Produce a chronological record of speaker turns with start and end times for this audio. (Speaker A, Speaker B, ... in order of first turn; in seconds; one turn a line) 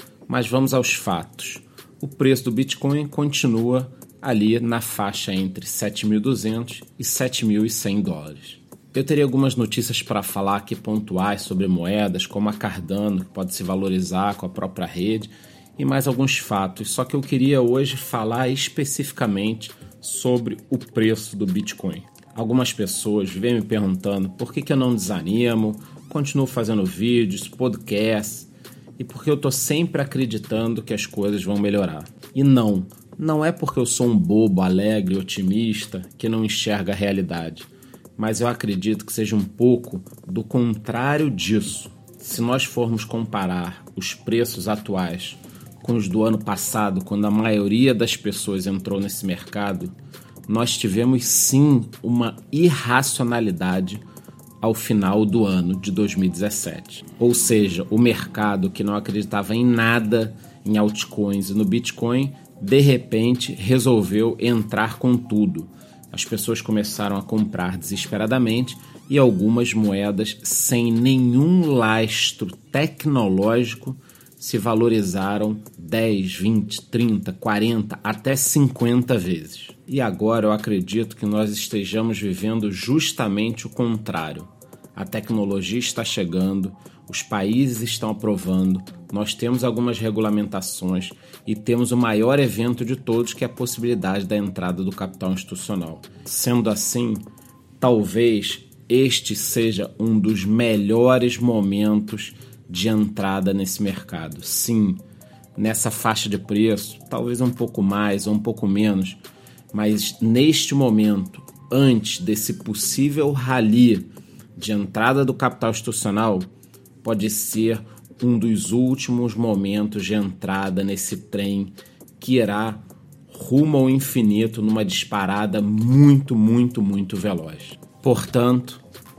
Speaker A: 0.3-49.9
Speaker A: 50.5-54.0
Speaker A: 54.6-97.2
Speaker A: 97.8-105.0
Speaker A: 105.5-109.2
Speaker A: 109.7-116.5
Speaker A: 117.0-128.8